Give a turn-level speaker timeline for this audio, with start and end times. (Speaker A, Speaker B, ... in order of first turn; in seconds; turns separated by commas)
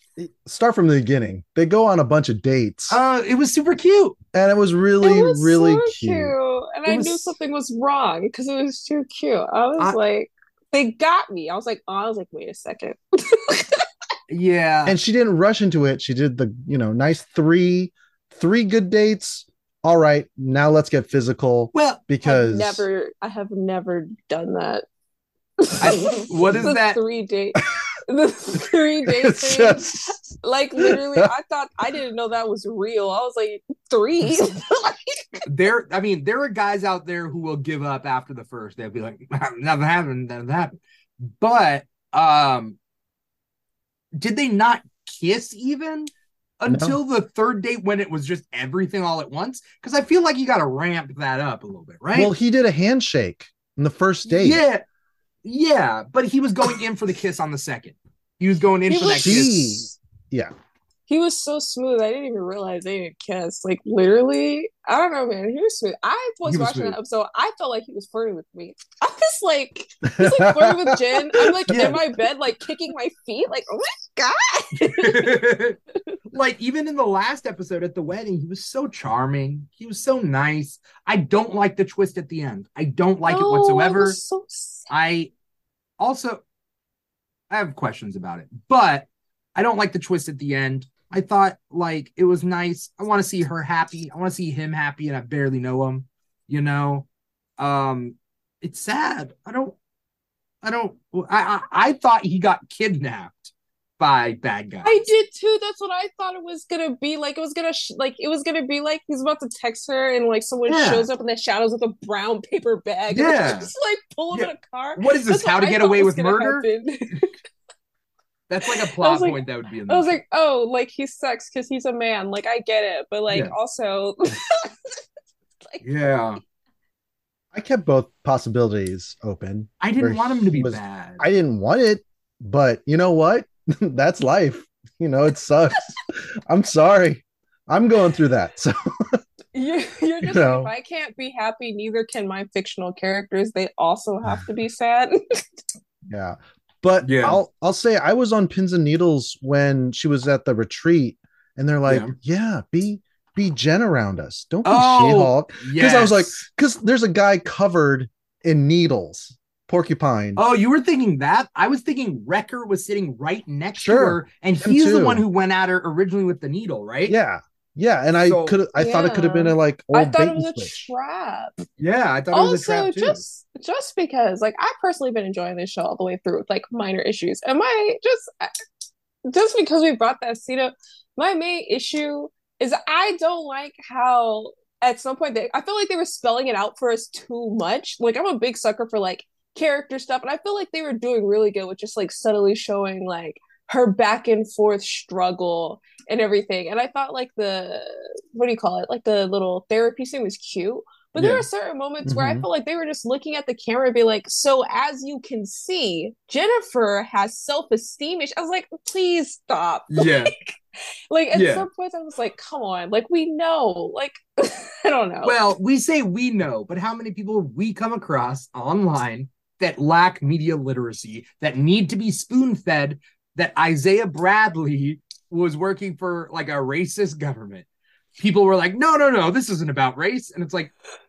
Speaker A: 0.2-3.0, Speaker B: 2.9-4.2, Speaker A: 4.3-6.3, Speaker C: 5.0-13.9, Speaker B: 6.8-7.3, Speaker B: 14.3-15.0, Speaker A: 14.8-22.8, Speaker B: 21.7-22.0, Speaker C: 22.2-24.8, Speaker C: 25.6-35.4, Speaker B: 25.8-27.0, Speaker A: 29.0-30.2, Speaker A: 30.8-31.3, Speaker B: 35.5-42.8, Speaker B: 44.1-52.3, Speaker A: 46.7-47.0, Speaker A: 52.1-54.6, Speaker B: 54.3-54.8, Speaker B: 55.4-59.9, Speaker C: 58.9-59.5, Speaker A: 59.0-60.5, Speaker C: 61.1-75.5, Speaker B: 66.4-67.0, Speaker A: 70.1-72.0, Speaker B: 71.7-72.0, Speaker B: 74.8-75.8, Speaker B: 76.3-84.2, Speaker C: 83.2-84.9, Speaker B: 84.9-85.3, Speaker B: 86.0-86.4, Speaker B: 87.5-97.0, Speaker B: 97.6-99.7, Speaker B: 100.6-105.0, Speaker C: 104.8-117.3, Speaker B: 110.7-111.1, Speaker B: 113.1-113.7, Speaker B: 114.3-116.7, Speaker B: 118.5-120.2, Speaker C: 118.7-125.0, Speaker B: 125.8-126.4, Speaker A: 127.5-139.2, Speaker B: 129.8-131.2, Speaker C: 139.5-145.4, Speaker A: 140.2-140.7, Speaker A: 146.1-160.4, Speaker B: 147.0-147.4, Speaker B: 151.8-152.1, Speaker B: 154.6-156.4, Speaker B: 160.4-167.1, Speaker A: 163.7-165.2, Speaker A: 167.1-170.9, Speaker B: 168.2-168.6, Speaker C: 168.7-171.6, Speaker B: 171.8-173.2, Speaker C: 172.3-178.5, Speaker C: 179.2-210.5, Speaker B: 201.2-201.4, Speaker A: 202.0-202.4, Speaker B: 209.9-210.3, Speaker C: 211.1-215.3, Speaker B: 211.3-211.7, Speaker B: 215.2-227.7, Speaker B: 228.2-230.7